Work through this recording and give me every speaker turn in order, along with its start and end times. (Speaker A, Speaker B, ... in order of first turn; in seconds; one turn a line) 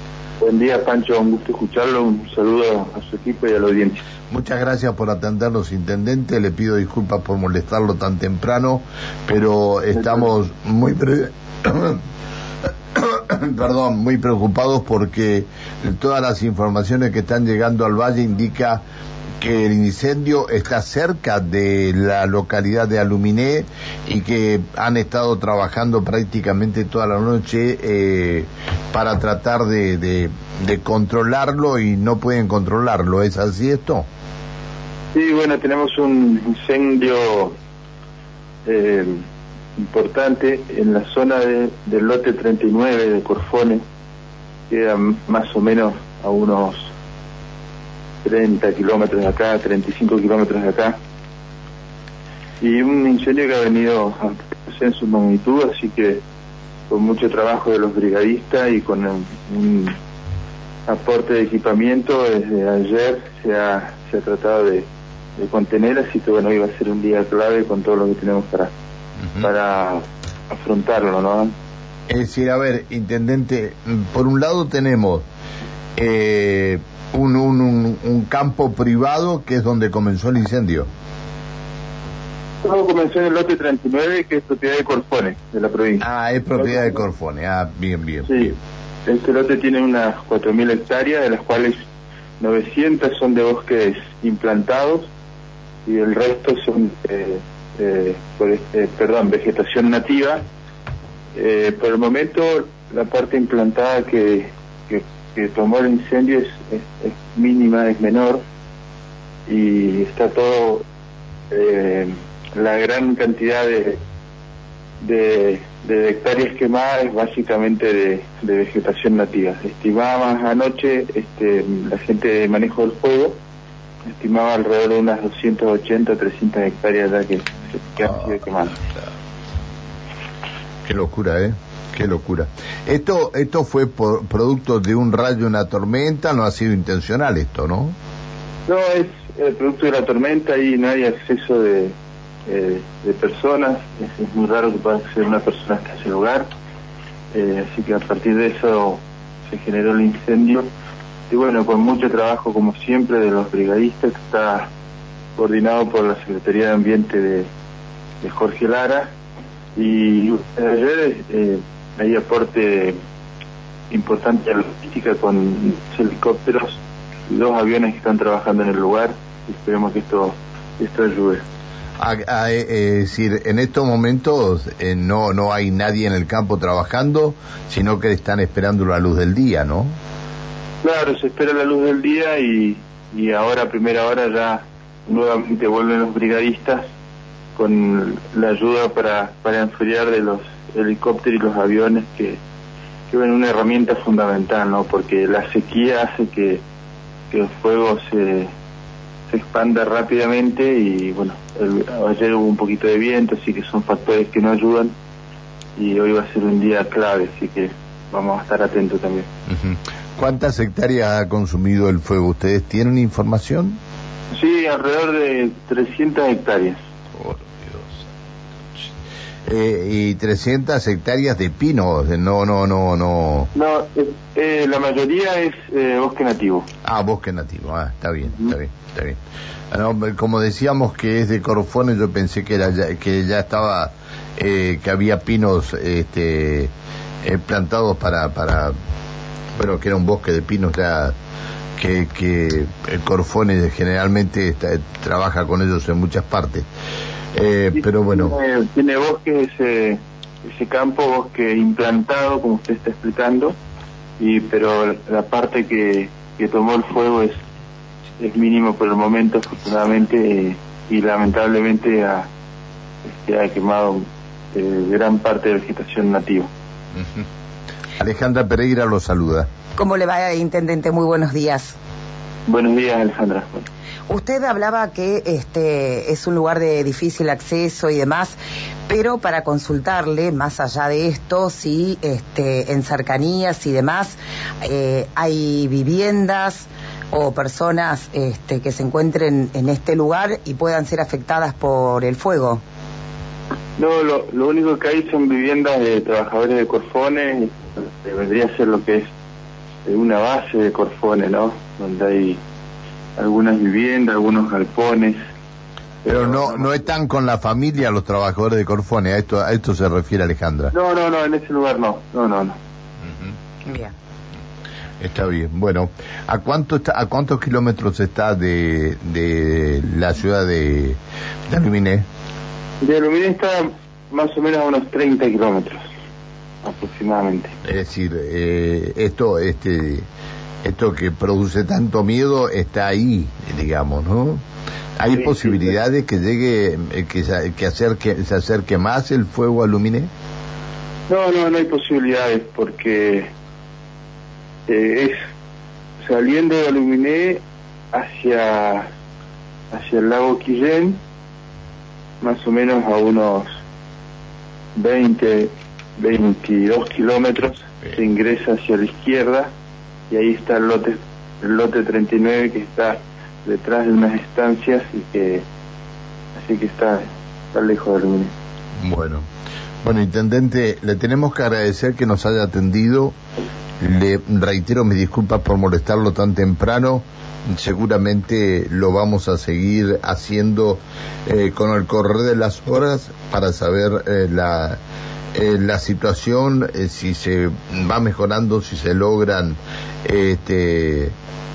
Speaker A: 0.4-4.0
Speaker B: 4.3-12.0
Speaker A: 10.0-10.2
Speaker B: 12.9-18.8
Speaker B: 19.4-34.0
Speaker A: 35.1-37.5
Speaker A: 38.6-39.2
Speaker A: 39.8-43.8
Speaker A: 44.7-46.9
Speaker A: 48.2-51.0
Speaker A: 52.6-56.2
Speaker A: 56.9-59.9
Speaker A: 60.9-64.8
Speaker A: 65.4-68.7
Speaker A: 69.4-71.5
Speaker B: 72.1-75.2
Speaker B: 76.0-80.9
Speaker A: 82.6-86.0
Speaker B: 86.0-88.5
Speaker A: 86.6-86.8
Speaker A: 88.2-88.5
Speaker A: 89.0-91.8
Speaker A: 92.4-95.1
Speaker A: 95.8-100.4
Speaker A: 101.3-108.4
Speaker A: 109.5-110.8
Speaker A: 111.5-114.0
Speaker A: 115.0-123.4
Speaker A: 124.1-128.8
Speaker B: 130.8-137.9
Speaker A: 138.7-141.9
Speaker A: 142.5-146.5
Speaker A: 147.3-150.7
Speaker A: 151.3-154.7
Speaker A: 155.4-157.5
Speaker A: 158.2-159.1
Speaker A: 159.8-163.0
Speaker A: 163.9-171.4
Speaker B: 172.0-179.9
Speaker A: 180.8-186.8
Speaker A: 187.6-192.4
Speaker A: 193.1-196.6
Speaker A: 197.3-198.5
Speaker A: 199.3-204.9
Speaker A: 205.8-209.3
Speaker B: 209.5-213.8
Speaker A: 214.3-216.8
Speaker B: 217.1-218.1
Speaker B: 219.4-223.5
Speaker A: 223.5-226.7
Speaker B: 226.8-229.2
Speaker B: 229.7-236.7
Speaker B: 237.2-238.7
Speaker B: 239.6-241.1
Speaker B: 241.8-246.7
Speaker B: 247.3-248.4
Speaker A: 247.7-253.6
Speaker A: 254.2-257.4
Speaker A: 258.2-262.2
Speaker A: 263.1-266.5
Speaker B: 268.0-269.5
Speaker C: 269.8-271.8
Speaker A: 272.4-273.6
Speaker C: 274.1-278.4
Speaker C: 278.9-292.6
Speaker A: 293.8-299.1
Speaker A: 299.9-302.4
Speaker A: 303.2-305.2
Speaker A: 306.0-306.8
Speaker B: 306.1-310.7
Speaker A: 310.7-312.6
Speaker B: 313.1-313.3
Speaker B: 315.0-322.1
Speaker A: 322.8-325.8
Speaker A: 326.6-327.5
Speaker B: 327.6-330.1
Speaker B: 330.6-334.4
Speaker B: 335.0-340.1
Speaker A: 335.1-335.7
Speaker A: 341.1-343.3
Speaker A: 344.7-345.2
Speaker A: 346.0-348.9
Speaker A: 349.7-351.0
Speaker A: 352.2-353.5
Speaker A: 354.8-359.5
Speaker A: 360.1-365.4
Speaker A: 366.4-368.3
Speaker B: 368.8-369.2
Speaker B: 369.8-373.1
Speaker B: 373.8-384.8
Speaker B: 385.3-391.1